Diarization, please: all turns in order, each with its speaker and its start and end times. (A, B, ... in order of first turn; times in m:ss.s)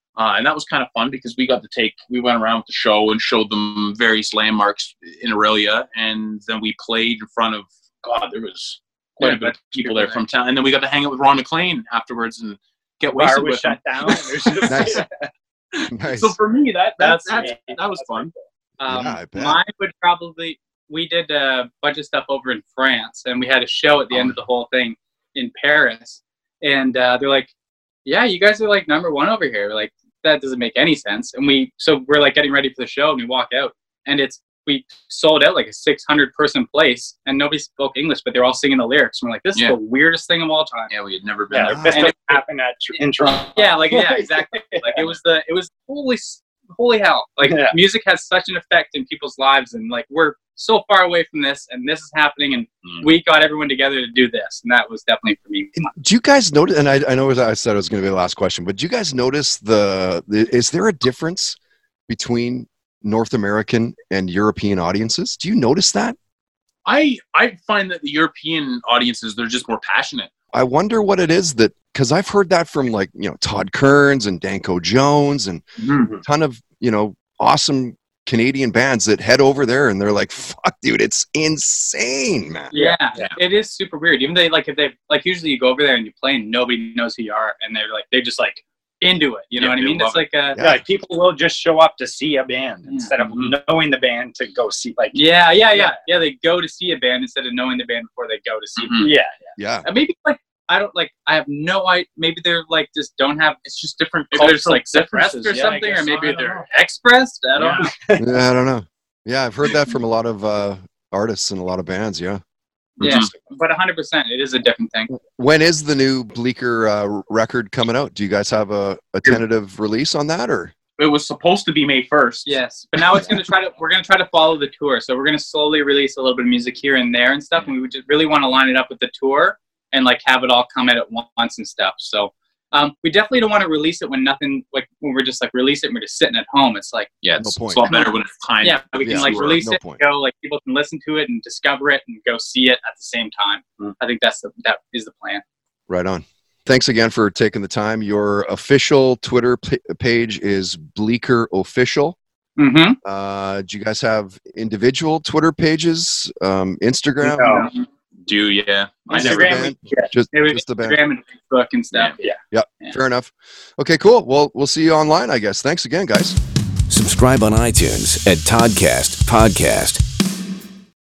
0:00.2-0:15.0 A
0:09.2-0:10.2 B
0:13.1-0:15.3 C
0:14.7-0:15.0 D
0:15.8-0:18.3 A
0:15.9-0:16.4 D
0:17.0-0:17.6 B
0:17.4-0:18.3 C
0:18.8-0:27.5 B
0:18.8-0:19.6 D
0:28.0-0:40.9 B
0:40.9-0:42.1 A
0:41.5-0:45.1 C
0:41.6-0:42.0 D
0:41.9-0:42.4 B
0:43.5-0:56.0 B
0:47.4-0:47.8 C
0:55.8-1:01.6 D
1:02.1-1:06.2 D
1:06.8-1:10.3 A
1:10.5-1:15.6 D
1:15.8-1:16.1 A
1:16.2-1:22.7 D
1:22.7-1:30.6 B
1:22.7-1:23.2 C
1:29.6-1:30.2 A
1:30.6-1:30.8 D
1:30.6-1:36.0 C
1:33.2-1:33.6 A
1:35.1-1:39.1 B
1:38.8-1:39.1 A
1:39.0-1:39.5 C
1:39.6-1:39.9 D
1:39.8-1:43.6 B
1:43.6-1:46.6 A
1:44.3-1:47.9 B
1:47.6-1:47.8 A
1:47.8-1:48.4 C
1:48.2-1:52.4 D
1:53.0-1:53.3 A
1:53.0-1:55.1 B
1:55.1-2:00.7 D
2:01.0-2:02.5 A
2:02.4-2:17.1 B
2:17.2-2:19.6 A
2:17.4-2:17.8 D
2:17.9-2:25.4 B
2:19.0-2:20.0 D
2:25.9-2:32.2 D
2:32.6-2:33.0 B
2:33.0-2:37.7 D
2:37.2-2:37.7 C
2:38.2-2:39.6 A
2:39.1-2:40.1 C
2:39.1-2:41.0 D
2:40.3-2:43.0 B
2:42.5-2:46.4 D
2:46.9-2:50.0 E